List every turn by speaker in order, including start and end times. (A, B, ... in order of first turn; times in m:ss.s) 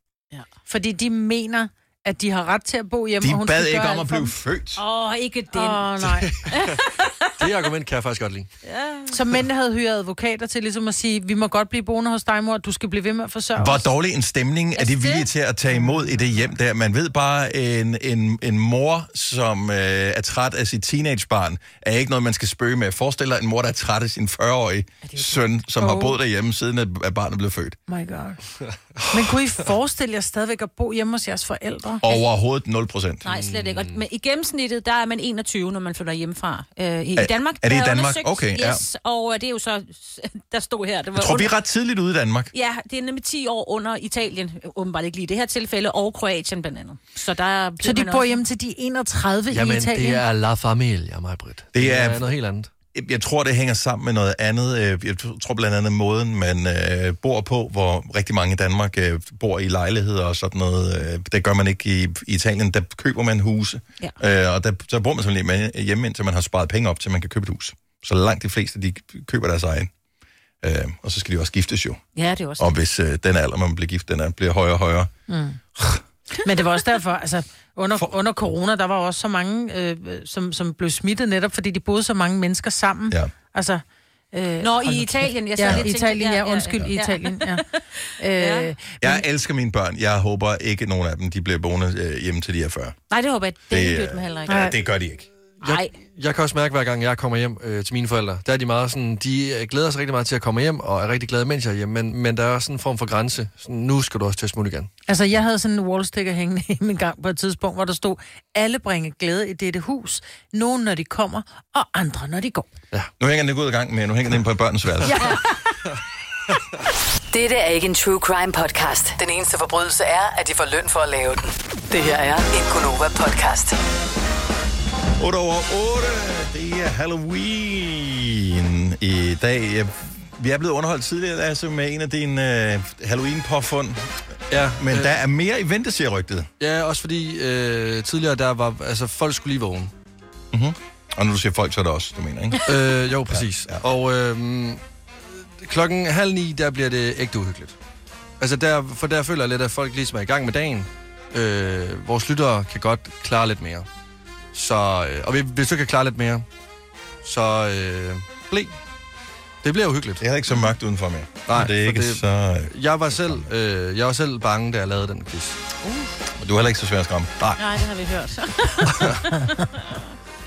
0:00.7-0:04.3 A
0:03.2-0:04.8 B
0:04.8-0:05.9 C
0:05.5-0:06.3 A
0:06.1-0:06.6 D
0:06.5-0:07.3 C
0:07.4-0:08.5 D
0:08.6-0:09.1 C
0:09.1-0:13.9 A
0:13.6-0:27.8 B
0:14.8-0:15.3 C
0:15.7-0:16.1 A
0:25.0-0:26.2 A
0:27.9-0:28.4 A
0:29.0-0:29.2 D
0:29.1-0:32.0 A
0:32.0-0:33.2 B
0:33.2-0:41.5 C
0:33.3-0:33.9 D
0:37.2-0:38.8 B
0:41.1-0:42.5 B
0:42.5-0:48.4 C
0:47.8-0:50.2 A
0:49.5-0:52.7 D
0:51.7-0:52.3 B
0:52.9-1:09.9 B
1:10.6-1:12.0 B
1:12.2-1:12.7 C
1:12.6-1:15.1 B
1:15.3-1:15.6 A
1:16.4-1:27.6 A
1:24.6-1:28.7 C
1:28.2-1:29.2 A
1:29.0-1:33.0 B
1:33.1-1:34.7 C
1:33.7-1:35.3 B
1:34.5-1:34.7 A
1:35.6-1:44.9 D
1:35.6-1:35.9 C
1:45.1-1:52.7 A
1:53.2-1:55.2 B
1:55.1-1:55.4 A
1:57.3-2:03.8 E
2:05.2-2:14.1 B
2:14.5-2:15.2 D
2:14.8-2:16.5 B
2:16.6-2:19.9 D
2:20.5-2:22.6 B
2:22.6-2:27.8 D
2:23.3-2:23.8 B
2:28.4-2:33.9 D
2:34.5-2:36.4 D
2:37.2-2:38.7 D
2:39.6-2:40.2 D
2:40.2-2:43.4 B
2:41.5-2:45.6 D
2:46.4-2:47.3 B
2:47.6-2:50.0 C